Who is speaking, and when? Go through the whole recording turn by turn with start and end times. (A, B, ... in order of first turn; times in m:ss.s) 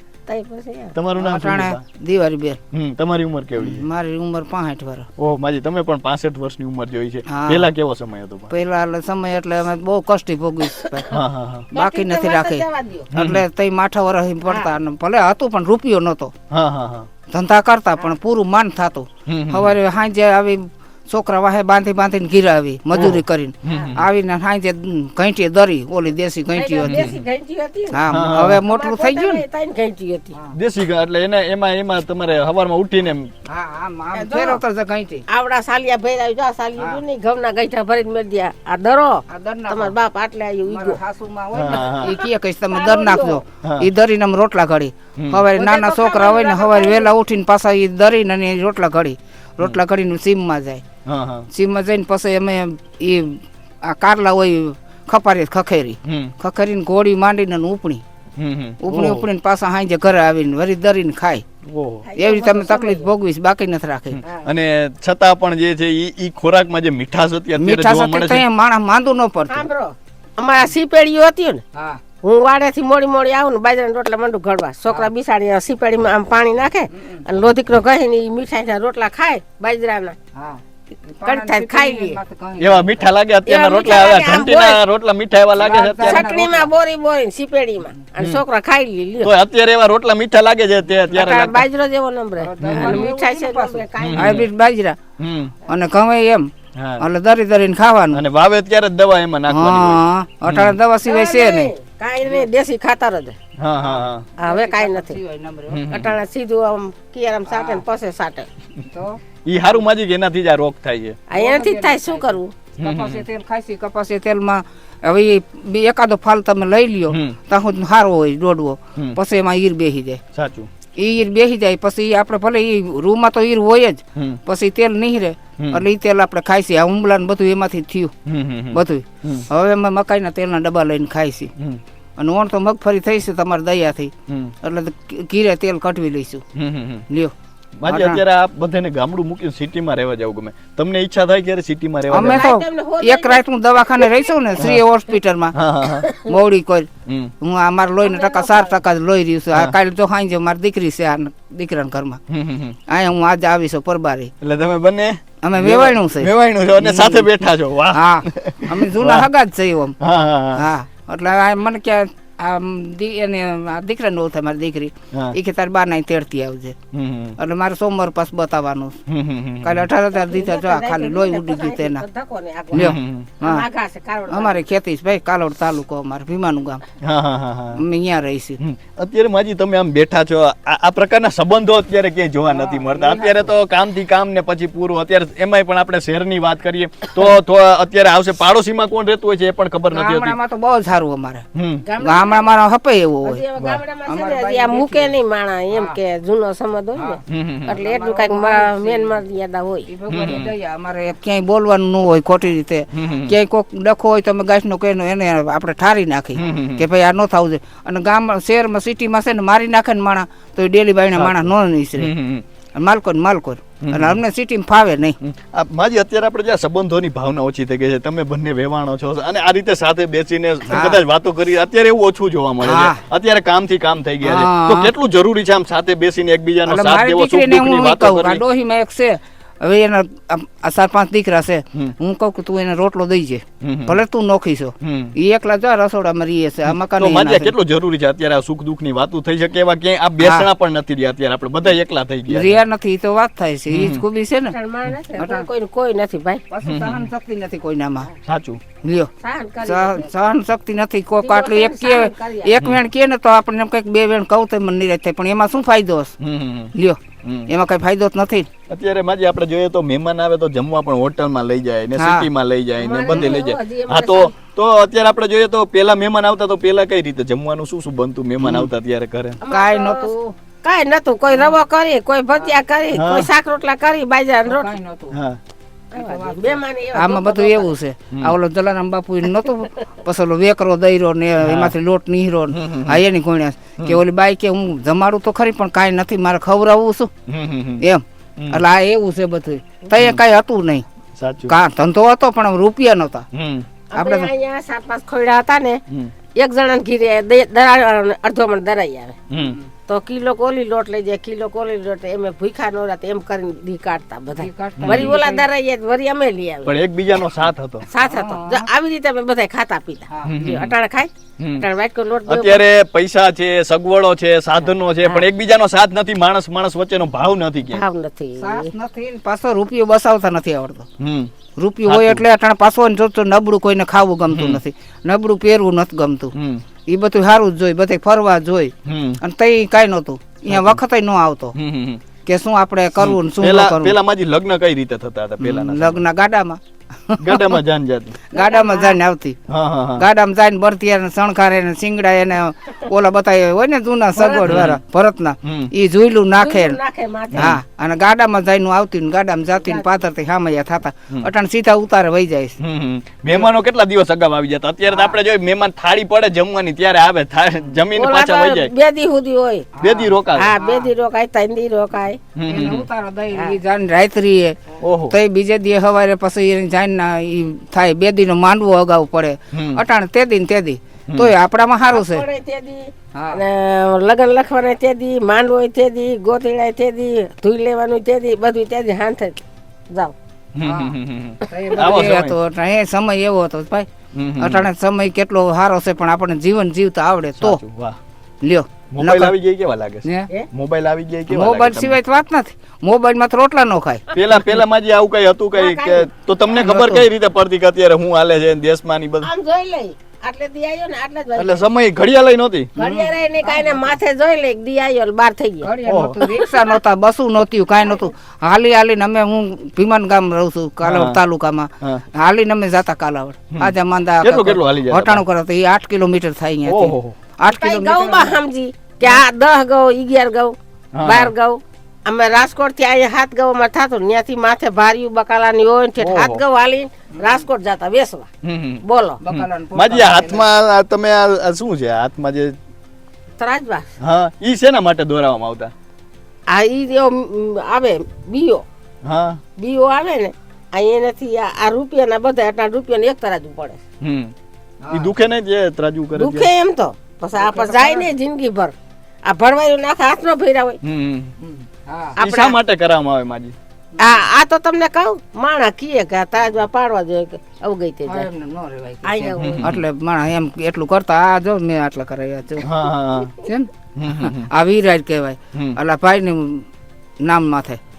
0:00.3-0:00.9 A
0:00.9-0:01.8 B
0:01.2-0:02.6 C
0:02.7-0:03.8 B
0:03.6-0:05.1 C
0:05.2-0:08.5 B
0:07.3-0:07.7 C
0:08.5-0:11.1 C
0:10.8-0:11.1 A
0:11.1-0:11.7 B
0:11.7-0:13.1 A
0:11.7-0:16.3 C
0:13.1-0:13.4 B
0:14.4-0:14.7 A
0:16.5-0:17.1 B
0:17.3-0:27.1 C
0:19.3-0:19.7 B
0:22.9-0:24.1 B
0:23.7-0:23.9 A
0:26.5-0:28.0 A
0:26.8-0:27.1 B
0:27.9-0:29.4 C
0:28.1-0:28.6 B
0:28.6-0:30.4 A
0:30.5-0:33.3 B
0:33.5-0:35.2 C
0:34.1-0:34.6 A
0:35.3-0:41.0 A
0:39.3-0:39.9 C
0:40.7-0:50.8 C
0:41.5-0:42.1 B
0:42.1-0:43.4 A
0:43.6-0:43.9 B
0:45.2-0:45.4 B
0:45.6-0:47.1 A
0:51.0-0:51.5 B
0:51.5-0:58.0 C
0:56.0-0:56.3 B
0:58.4-0:59.3 B
0:58.8-1:01.4 C
1:01.6-1:02.0 B
1:02.0-1:03.1 A
1:02.2-1:04.2 C
1:04.2-1:04.5 A
1:04.4-1:08.4 B
1:07.6-1:09.6 C
1:09.5-1:11.6 A
1:11.7-1:12.0 C
1:12.2-1:20.2 A
1:16.9-1:17.2 C
1:20.3-1:23.1 C
1:21.2-1:22.2 A
1:22.6-1:26.3 B
1:23.4-1:24.8 A
1:25.6-1:26.7 C
1:26.0-1:29.3 A
1:29.2-1:31.7 B
1:31.1-1:34.4 A
1:32.4-1:35.0 C
1:32.6-1:33.0 B
1:34.0-1:34.5 B
1:35.2-1:35.5 B
1:35.7-1:36.5 C
1:36.8-1:37.0 B
1:37.0-1:38.2 C
1:38.1-1:40.7 B
1:39.5-1:41.7 C
1:41.0-1:43.4 A
1:43.6-1:44.3 B
1:43.8-1:45.8 C
1:44.4-1:45.2 A
1:45.7-1:46.1 B
1:45.9-1:48.5 A
1:47.5-1:47.8 C
1:48.9-1:49.2 C
1:49.5-1:51.2 B
1:51.3-1:52.5 A
1:51.3-2:00.2 C
1:52.8-1:53.2 B
1:57.1-1:57.4 B
2:00.3-2:00.7 B
2:01.0-2:08.1 C
2:08.2-2:09.4 B
2:08.7-2:11.5 C
2:12.2-2:14.1 C
2:14.3-2:14.5 B
2:14.6-2:16.4 C
2:16.5-2:17.0 B
2:17.8-2:22.4 B
2:17.9-2:18.2 C
2:22.1-2:25.5 C
2:22.2-2:23.4 A
2:25.5-2:26.1 B
2:26.0-2:26.3 A
2:26.2-2:26.9 C
2:27.1-2:27.3 B
2:27.4-2:32.2 C
2:28.0-2:28.8 A
2:32.3-2:32.8 B
2:32.9-2:34.3 C
2:34.4-2:39.3 B
2:35.4-2:37.3 C
2:37.9-2:40.0 C
2:40.0-2:40.6 B
2:40.5-2:46.8 C
2:46.9-2:47.4 B
2:47.4-2:49.0 C
2:49.1-2:49.9 B
2:49.6-2:52.0 C
2:50.1-2:54.6 A
2:52.7-2:53.3 B
2:52.7-2:53.6 C
2:54.3-2:56.8 C
2:57.0-2:57.8 B
2:57.8-2:58.6 C
2:58.6-3:10.4 B
3:02.5-3:03.5 C
3:09.9-3:11.4 C
3:11.5-3:11.8 B
3:11.8-3:12.5 A
3:12.0-3:13.4 C
3:13.2-3:19.9 A
3:14.1-3:15.1 C
3:15.7-3:16.0 C
3:17.0-3:19.2 C
3:17.3-3:17.8 B
3:19.9-3:32.1 C
3:20.1-3:20.5 B
3:22.9-3:23.3 B
3:26.4-3:26.8 B
3:31.1-3:32.4 B
3:32.8-3:35.2 C
3:33.8-3:34.2 B
3:35.2-3:48.4 B
3:40.6-3:41.0 C
3:42.6-3:43.0 C
3:44.2-3:44.9 C
3:46.6-3:57.5 C
3:53.6-3:54.0 B
3:54.8-3:55.1 B
3:56.9-4:02.6 B
4:00.2-4:00.5 C
4:02.3-4:04.5 C
4:03.7-4:04.0 B
4:04.5-4:06.4 A
4:05.2-4:05.5 C
4:06.5-4:08.1 C
4:06.6-4:07.0 B
4:08.2-4:08.6 B
4:08.8-4:09.1 C
4:09.2-4:10.1 A
4:09.6-4:16.1 C
4:11.2-4:12.6 A
4:16.2-4:17.5 B
4:16.7-4:18.5 C
4:18.7-4:29.4 B
4:22.0-4:22.3 C
4:22.8-4:24.3 A
4:23.1-4:23.4 C
4:28.4-4:28.7 C
4:29.4-4:34.7 A
4:29.5-4:30.3 C
4:31.3-4:31.5 C
4:32.9-4:33.3 B
4:34.4-4:35.2 C
4:35.1-4:35.4 B
4:35.9-4:37.7 A
4:35.9-4:47.1 C
4:41.4-4:41.7 B
4:42.5-4:43.0 B
4:47.3-4:47.8 B
4:47.8-4:50.8 C
4:48.4-4:48.6 B
4:51.2-4:51.5 B
4:51.5-4:53.3 C
4:53.3-4:53.7 B
4:53.9-4:55.8 A
4:54.0-4:54.3 C
4:56.4-4:59.2 A
4:59.3-4:59.6 B
4:59.4-4:59.6 C
4:59.9-5:06.7 A
5:04.4-5:05.5 C
5:04.8-5:05.2 B
5:06.6-5:07.8 B
5:07.9-5:12.6 A
5:08.0-5:08.7 C
5:10.1-5:10.3 C
5:10.3-5:10.7 B
5:11.4-5:11.6 B
5:12.3-5:17.8 B
5:17.7-5:18.7 A
5:18.4-5:20.9 C
5:21.0-5:21.3 B
5:21.6-5:26.3 C
5:21.9-5:22.2 B
5:24.3-5:24.6 B
5:26.3-5:26.6 B
5:26.9-5:31.6 C
5:28.8-5:29.2 B
5:30.5-5:30.8 B
5:31.5-5:32.0 B
5:32.2-5:33.9 C
5:33.0-5:36.0 B
5:35.4-5:37.6 C
5:37.2-5:38.2 B
5:38.3-5:39.4 C
5:38.3-5:39.0 A
5:39.5-5:40.0 B
5:40.0-5:46.8 C
5:44.1-5:44.7 A
5:44.4-5:44.8 B
5:45.4-5:45.7 B
5:46.4-5:47.6 A
5:47.3-5:47.6 B
5:47.3-5:52.6 C
5:49.5-5:49.9 A
5:52.6-5:58.7 B
5:57.9-5:59.7 A
5:59.8-6:00.9 C
5:59.8-6:00.5 B
6:00.3-6:02.2 A
6:02.4-6:02.9 B
6:02.5-6:04.6 C
6:04.8-6:05.2 B
6:05.1-6:12.2 C
6:09.5-6:09.8 B
6:11.9-6:20.1 A
6:13.1-6:13.4 C
6:20.5-6:22.4 B
6:20.6-6:20.9 C
6:21.5-6:27.6 C
6:24.1-6:24.7 B
6:27.4-6:28.0 B
6:28.4-6:29.3 C
6:28.9-6:32.0 B
6:31.3-6:34.0 C
6:34.1-6:39.3 B
6:35.5-6:36.1 A
6:36.5-6:37.0 C
6:39.2-6:41.6 A
6:41.4-6:42.7 B
6:42.8-6:45.7 A
6:42.8-6:43.9 C
6:45.6-6:58.4 C
6:45.8-6:46.2 B
6:46.2-6:46.7 A
6:50.8-6:51.2 B
6:53.5-6:55.2 B
6:56.6-6:57.2 B
6:57.4-7:08.3 A
7:00.9-7:01.3 B
7:06.0-7:06.4 B
7:08.4-7:12.5 B
7:08.8-7:09.2 A
7:09.2-7:10.4 C
7:13.4-7:13.9 A
7:14.0-7:15.7 B
7:16.5-7:18.6 A
7:19.0-7:19.4 B
7:19.6-7:23.8 A
7:24.0-7:24.3 B
7:24.8-7:25.1 C
7:24.9-7:26.5 B
7:26.2-7:28.7 A
7:27.4-7:28.1 C
7:29.2-7:30.8 A
7:30.8-7:31.3 B
7:31.4-7:32.2 C
7:32.2-7:32.6 A
7:32.2-7:33.5 B
7:34.0-7:38.3 A
7:38.0-7:42.6 C
7:39.0-7:39.7 A
7:39.4-7:39.8 B
7:42.6-7:43.3 B
7:43.4-7:46.7 C
7:44.0-7:44.5 B
7:47.2-7:47.8 C